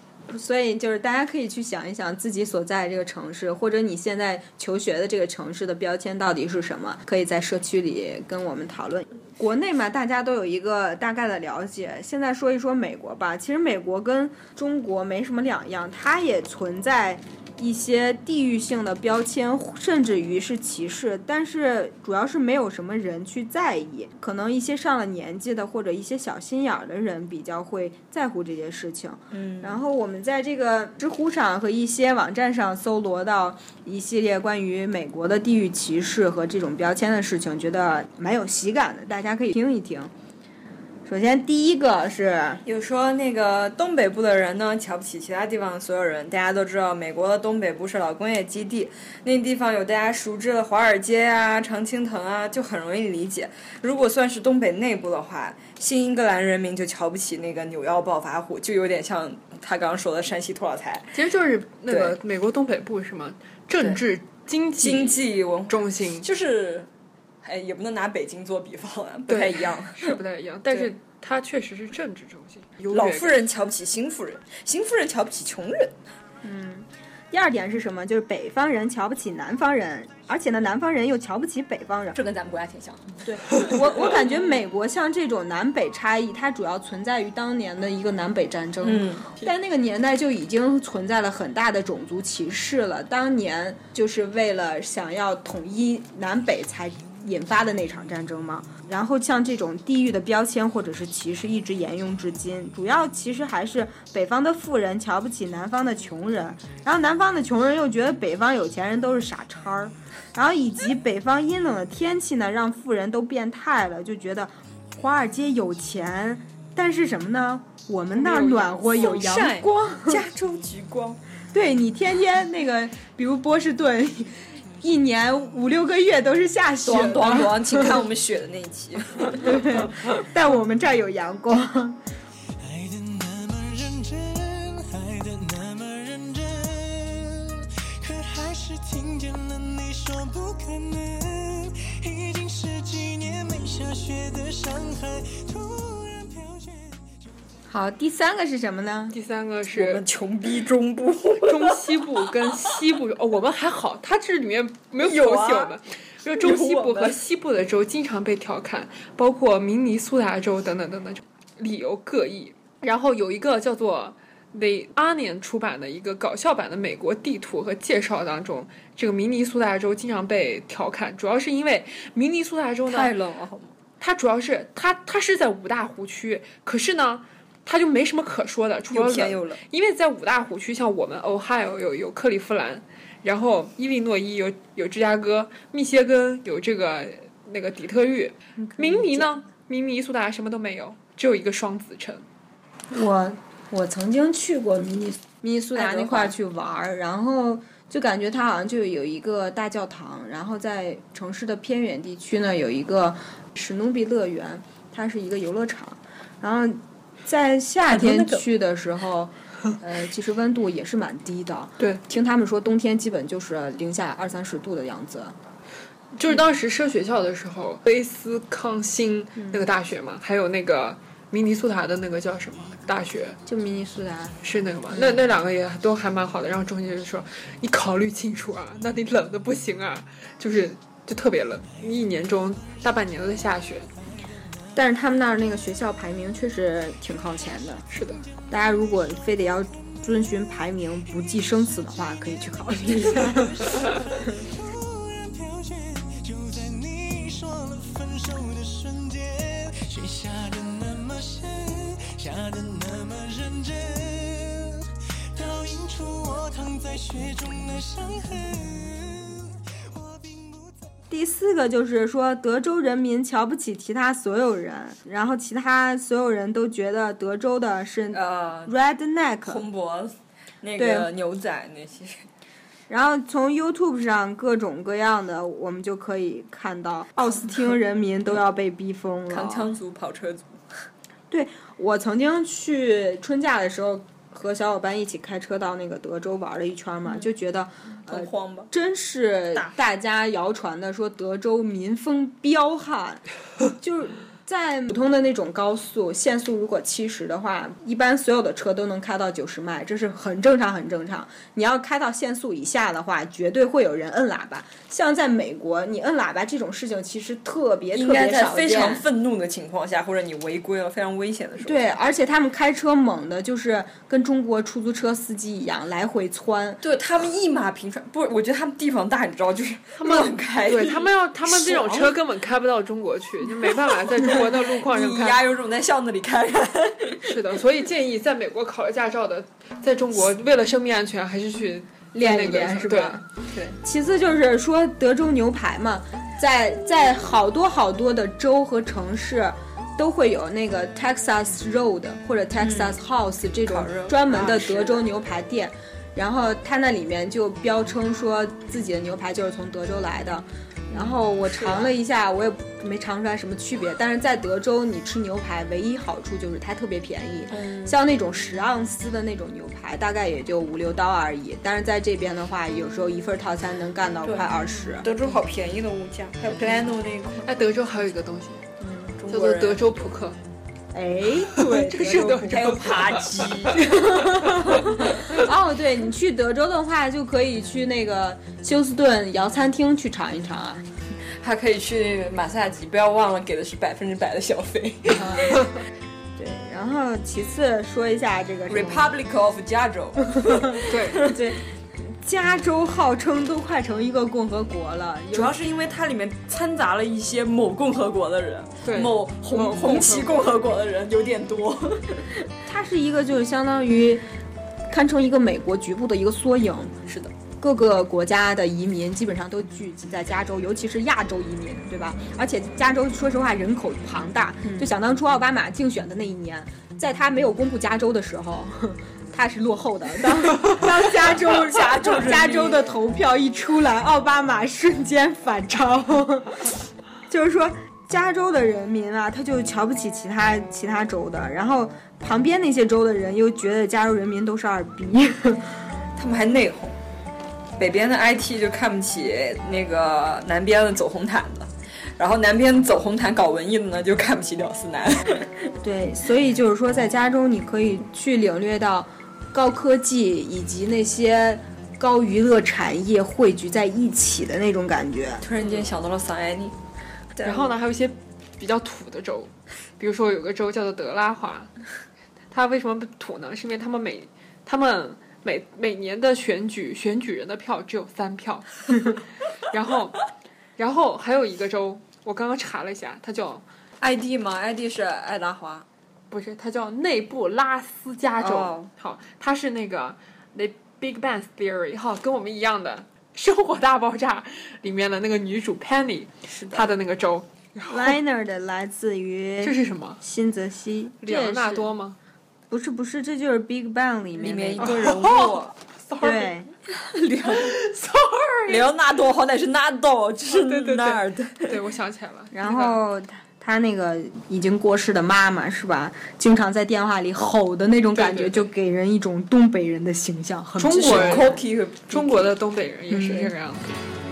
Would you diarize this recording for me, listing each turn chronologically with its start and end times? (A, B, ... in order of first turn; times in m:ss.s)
0:00.3-0:40.1 A
0:29.3-0:29.8 B
0:41.0-0:42.6 A
0:42.6-1:01.2 B
1:01.1-1:06.3 C
1:01.9-1:02.2 B
1:04.8-1:06.9 B
1:07.4-1:10.2 B
1:09.3-1:13.3 C
1:12.9-1:16.0 B
1:16.4-1:22.2 A
1:22.1-1:24.3 B
1:23.2-2:00.2 A
1:28.8-1:29.5 B
1:58.2-1:59.2 C
1:58.9-2:01.2 B
2:01.5-2:07.8 A
2:06.8-2:09.9 B
2:09.5-2:12.0 A
2:12.6-2:26.7 D
2:27.7-2:29.2 A
2:29.1-2:30.0 C
2:29.7-2:32.8 B
2:31.5-2:53.1 C
2:35.0-2:35.8 B
2:36.4-2:37.2 B
2:52.9-2:53.8 B
2:54.0-3:12.2 C
2:58.9-2:59.6 B
3:08.6-3:09.3 A
3:12.9-3:35.4 A
3:15.8-3:16.4 B
3:27.9-3:28.4 B
3:36.2-3:43.4 C
3:39.4-3:39.6 A
3:43.5-3:44.4 A
3:44.4-3:53.9 C
3:54.8-3:57.8 A
3:57.9-3:58.2 C
3:58.5-4:03.9 A
4:04.8-4:19.3 D
4:21.1-4:29.6 A
4:28.1-4:28.7 B
4:29.4-4:32.3 B
4:30.8-4:31.1 A
4:32.9-4:39.7 A
4:39.3-4:40.8 B
4:41.3-4:53.2 A
4:48.1-4:48.7 B
4:53.8-5:09.0 A
5:07.9-5:11.9 B
5:11.6-5:16.8 A
5:16.8-5:22.2 B
5:20.0-5:25.4 C
5:23.9-5:27.4 B
5:27.2-5:33.2 C
5:32.1-5:33.2 A
5:33.5-5:33.8 B
5:33.8-6:05.1 A
5:42.6-5:43.0 B
5:43.6-5:45.1 B
5:50.9-5:51.9 B
5:57.5-5:58.0 B
6:04.2-6:07.5 B
6:07.4-6:08.6 C
6:09.0-6:10.0 B
6:09.3-6:10.4 C
6:10.9-6:12.8 A
6:11.6-6:13.8 C
6:12.5-6:14.1 B
6:13.8-6:20.8 A
6:14.4-6:14.7 C
6:21.4-6:25.6 B
6:26.4-6:29.1 A
6:28.7-6:31.4 B
6:30.4-6:35.5 A
6:30.9-6:31.2 C
6:35.3-6:42.3 B
6:38.8-6:40.4 C
6:42.7-6:44.3 A
6:44.9-6:47.0 A
6:47.0-6:47.3 B
6:47.6-7:06.6 A
6:54.6-6:54.9 B
7:00.7-7:02.9 B
7:07.3-7:15.7 A
7:16.2-7:17.0 B
7:17.8-7:25.7 B
7:25.8-7:35.4 A
7:35.4-7:36.8 B
7:37.4-7:37.7 B
7:37.4-7:41.7 C
7:42.5-7:50.3 C
7:50.8-7:53.6 C
7:54.0-7:55.9 B
7:56.3-8:08.2 C
7:58.4-7:58.9 B
8:06.5-8:06.9 B
8:07.9-8:11.9 A
8:09.6-8:10.2 C
8:11.2-8:12.2 C
8:12.7-8:15.0 A
8:14.4-8:15.7 B
8:14.8-8:16.5 C
8:16.2-8:16.7 A
8:16.9-8:17.8 B
8:17.5-8:18.9 C
8:18.7-8:21.8 B
8:20.5-8:23.0 C
8:22.5-8:31.5 A
8:28.2-8:28.7 C
8:30.8-8:31.6 C
8:30.9-8:32.5 B
8:32.1-8:33.9 C
8:33.1-8:33.5 A